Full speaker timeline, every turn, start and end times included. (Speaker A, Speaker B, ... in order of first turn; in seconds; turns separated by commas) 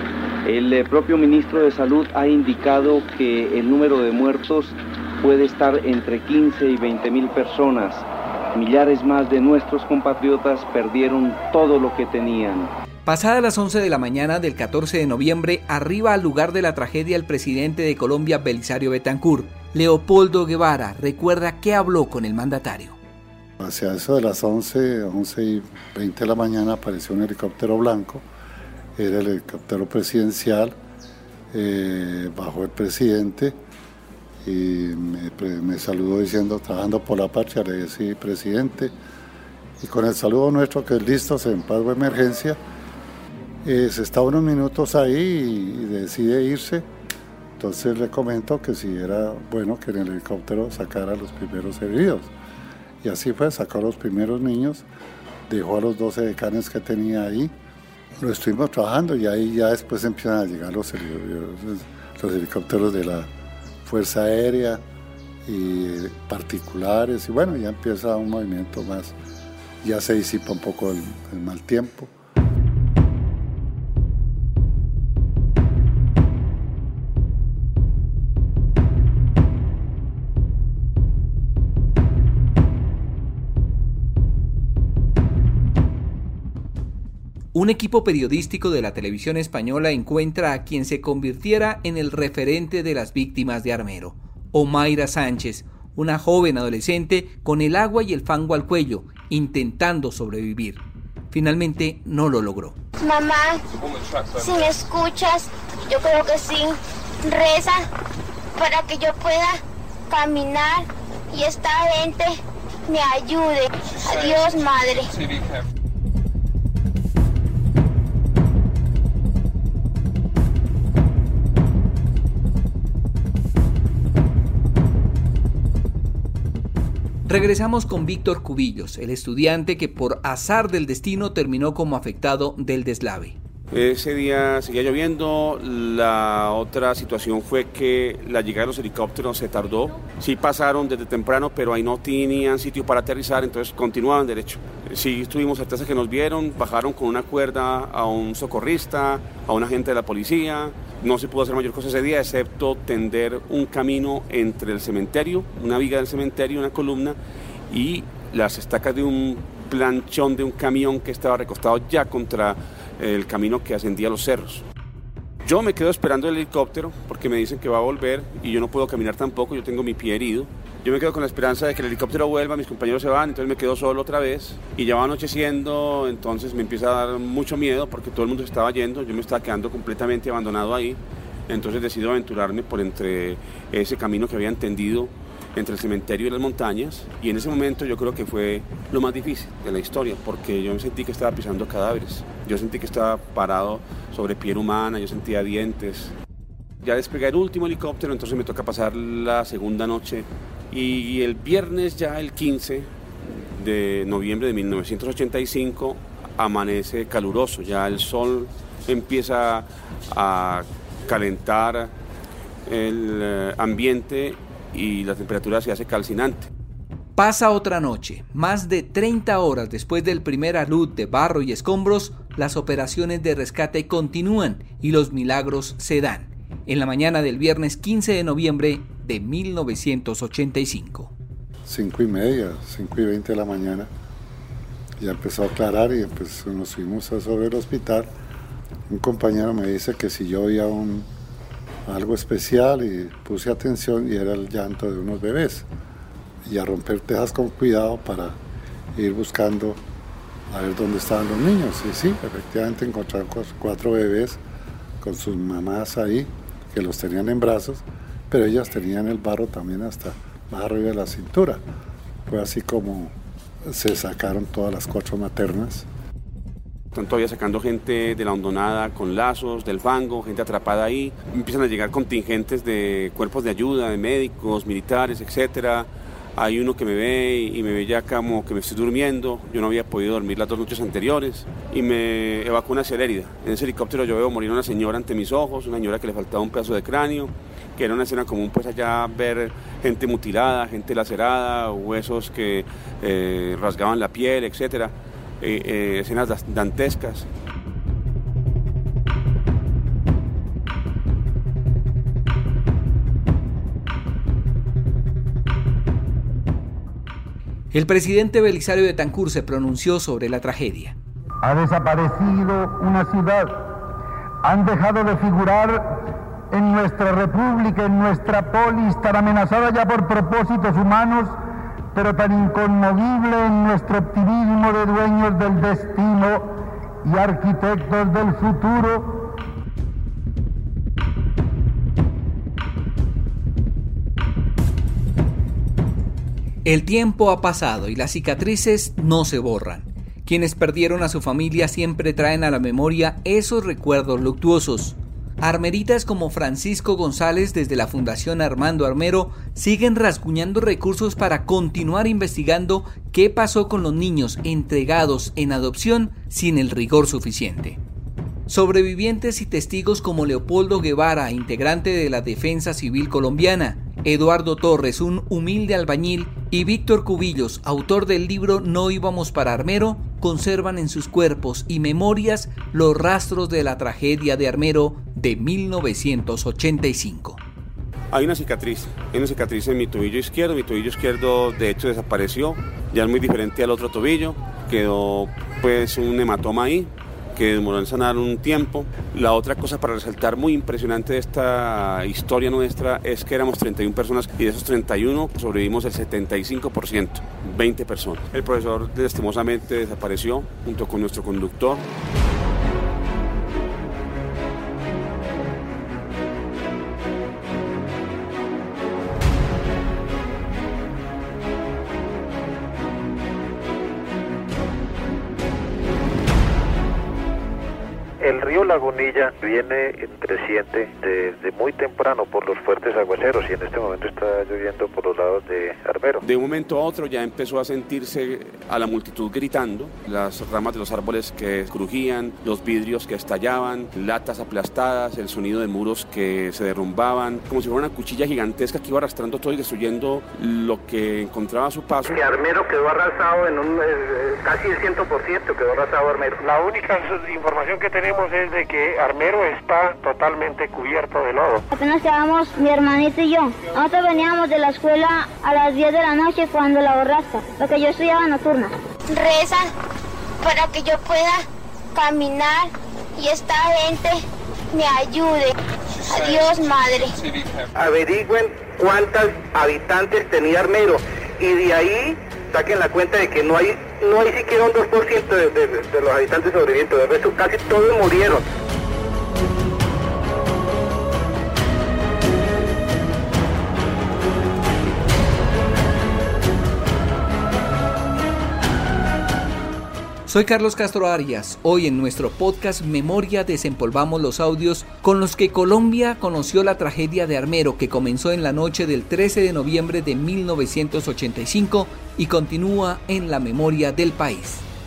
Speaker A: 0.5-12.7, Speaker B: 13.1-23.0, Speaker C: 23.6-28.2, Speaker C: 28.9-30.8, Speaker C: 31.5-33.6, Speaker C: 34.4-38.9, Speaker C: 39.8-42.6, Speaker C: 43.6-46.9, Speaker C: 47.6-52.3, Speaker C: 53.0-54.9, Speaker C: 55.5-57.5, Speaker C: 58.2-63.3, Speaker C: 63.8-64.8, Speaker C: 65.5-69.1, Speaker C: 69.8-72.1, Speaker B: 87.5-102.8, Speaker D: 103.0-103.5, Speaker D: 104.4-106.7, Speaker D: 107.3-107.7, Speaker D: 108.6-109.5, Speaker D: 110.1-112.2, Speaker D: 112.9-115.0, Speaker B: 127.3-133.3, Speaker E: 133.7-157.2, Speaker E: 157.7-164.6, Speaker E: 165.4-196.1, Speaker E: 196.8-211.9, Speaker E: 212.7-216.5, Speaker B: 217.2-231.1, Speaker C: 231.7-233.9, Speaker C: 235.0-238.1, Speaker C: 238.9-241.1, Speaker C: 241.8-245.7, Speaker C: 246.4-248.4, Speaker C: 248.9-249.8, Speaker C: 250.5-254.4, Speaker C: 255.0-261.6, Speaker C: 262.3-263.1, Speaker C: 263.6-265.8, Speaker E: 266.9-297.2, Speaker B: 307.7-310.9, Speaker F: 311.4-313.7, Speaker F: 314.4-321.4, Speaker F: 321.9-329.3, Speaker B: 336.6-357.8, Speaker B: 358.5-377.4, Speaker E: 378.1-401.8, Speaker G: 418.2-426.2, Speaker E: 426.2-442.2, Speaker H: 442.0-446.4, Speaker I: 446.4-451.6, Speaker J: 451.7-458.7, Speaker D: 459.1-459.6, Speaker D: 460.4-461.3, Speaker D: 461.9-464.2, Speaker D: 464.7-465.5, Speaker D: 466.1-467.0, Speaker H: 467.7-478.4, Speaker B: 490.3-504.6